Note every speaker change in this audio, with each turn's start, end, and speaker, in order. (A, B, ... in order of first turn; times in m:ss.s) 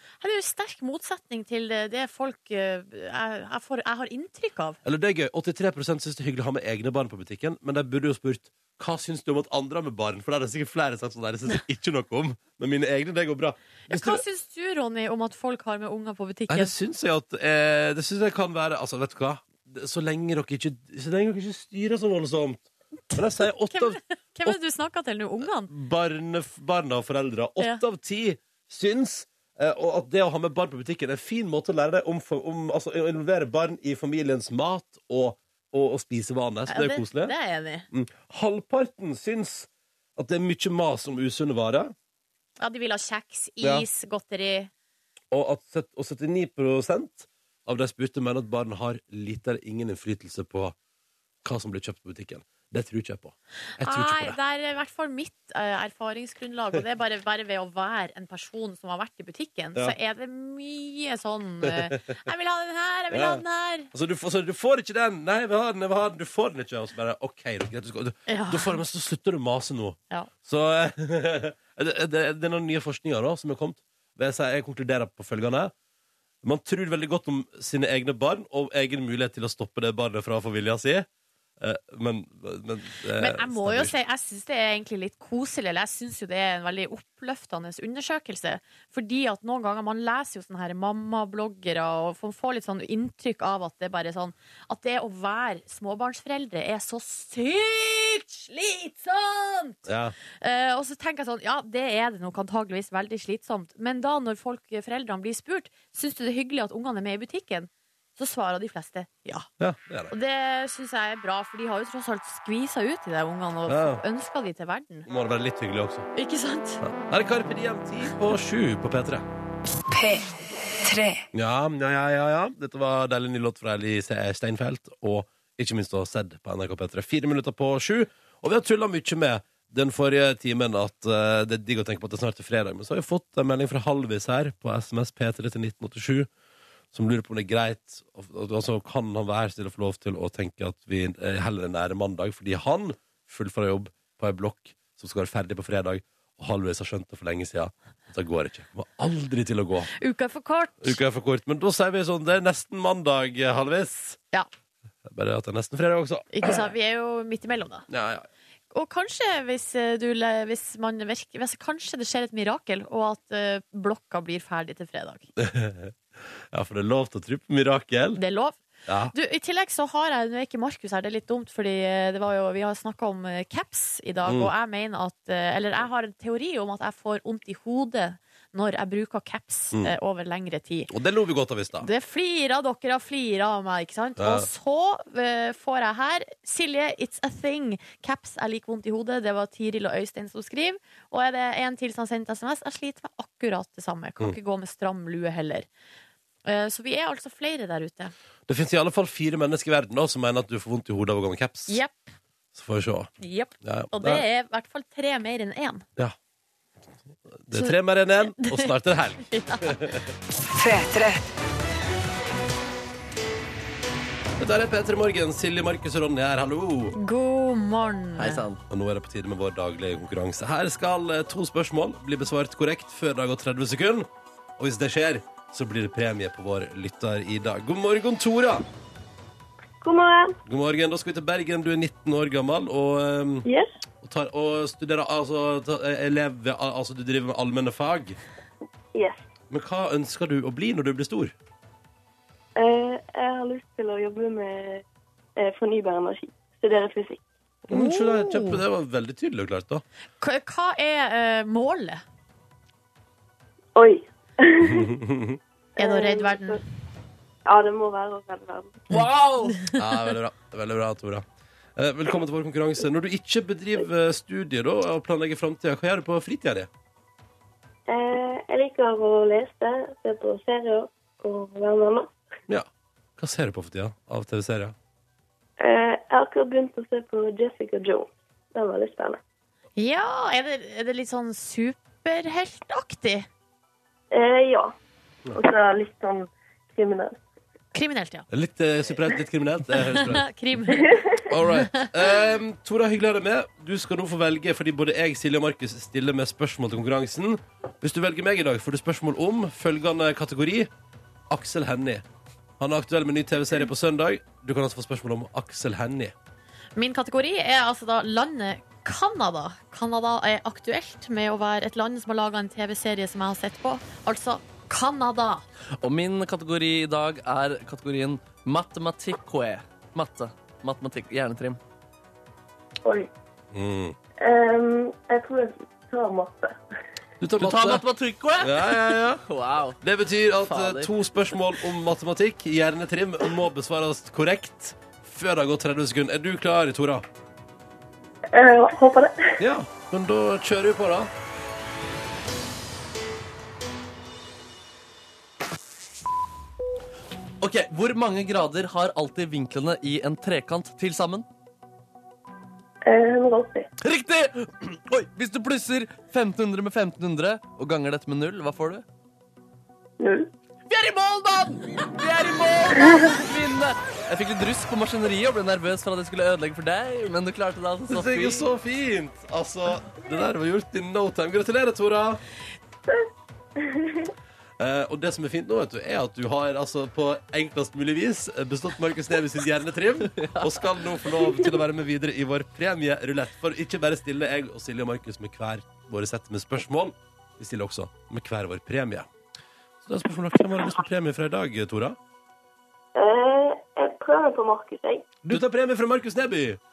0:00.2-0:04.8 A
0:04.8-0:14.2 B
0:13.9-0:16.7 A
0:16.5-0:24.6 B
0:23.1-0:25.7 A
0:25.7-0:37.3 B
0:36.7-0:37.9 A
0:37.9-0:41.9 B
0:42.6-0:44.7 A
0:43.6-0:43.8 B
0:45.3-0:50.7 B
0:51.4-0:54.4 B
0:53.8-1:03.9 A
1:01.6-1:02.0 B
1:03.1-1:15.7 B
1:08.3-1:08.8 A
1:16.4-1:21.1 B
1:21.6-1:23.9 B
1:23.2-1:39.8 A
1:39.8-1:40.1 B
1:40.4-1:49.5 A
1:49.6-1:50.1 B
1:50.1-1:55.1 A
1:53.7-1:54.0 B
1:55.1-1:56.1 B
1:56.1-1:56.8 A
1:56.8-1:59.2 B
1:59.9-2:01.2 C
2:01.3-2:16.3 B
2:16.9-2:29.9 B
2:29.9-2:31.0 A
2:30.8-2:34.2 B
2:35.0-2:36.6 B
2:36.3-2:37.9 A
2:37.9-2:38.3 B
2:38.7-2:45.3 A
2:45.4-2:48.2 B
2:48.2-2:48.6 A
2:48.9-2:49.1 B
2:49.1-3:00.9 A
2:54.2-2:54.5 B
3:00.9-3:01.9 B
3:01.8-3:15.7 A
3:04.2-3:04.5 B
3:16.4-3:18.1 A
3:18.5-3:21.8 B
3:21.7-3:22.1 A
3:22.5-3:24.2 B
3:23.2-3:25.8 A
3:27.3-3:30.1 B
3:28.4-3:28.7 A
3:29.2-3:29.8 A
3:30.4-3:31.2 C
3:34.4-3:37.0 B
3:37.0-3:38.4 A
3:38.2-3:38.6 D
3:38.7-3:48.6 B
3:49.8-3:50.4 E
3:50.4-3:53.5 B
3:54.0-3:58.2 B
3:58.9-3:59.2 E
3:59.5-4:01.3 B
4:02.6-4:04.8 E
4:05.4-4:07.2 E
4:07.7-4:08.6 A
4:07.7-4:09.8 B
4:10.2-4:12.0 A
4:13.8-4:14.9 E
4:14.6-4:15.4 B
4:15.8-4:16.6 E
4:15.8-4:16.6 A
4:17.4-4:18.8 E
4:18.9-4:19.6 D
4:19.5-4:19.8 A
4:19.7-4:21.2 B
4:21.8-4:26.7 B
4:27.9-4:32.1 E
4:32.5-4:34.7 B
4:35.6-4:39.2 E
4:39.8-4:43.3 A
4:44.1-4:44.7 E
4:45.3-4:47.2 E
4:47.7-4:48.3 A
4:48.3-4:50.2 B
4:49.8-4:51.0 A
4:50.7-4:51.2 E
4:51.3-5:00.7 B
4:51.5-4:51.9 A
5:01.3-5:02.0 B
5:02.6-5:06.1 B
5:06.8-5:15.4 A
5:15.8-5:21.6 D
5:22.8-5:23.1 E
5:23.5-5:24.0 B
5:24.2-5:26.6 E
5:27.2-5:27.8 B
5:27.4-5:29.8 D
5:28.4-5:29.2 B
5:29.8-5:37.0 B
5:30.4-5:30.9 D
5:38.3-5:39.3 E
5:39.4-5:41.1 B
5:47.4-5:51.2 D
5:52.8-5:53.7 E
5:53.8-5:58.8 D
6:00.0-6:00.3 E
6:00.7-6:08.5 D
6:02.8-6:03.0 E
6:07.9-6:12.2 B
6:12.9-6:14.1 E
6:14.6-6:29.1 B
6:20.1-6:20.6 D
6:29.8-6:32.0 B
6:32.9-6:35.1 E
6:35.2-6:36.6 B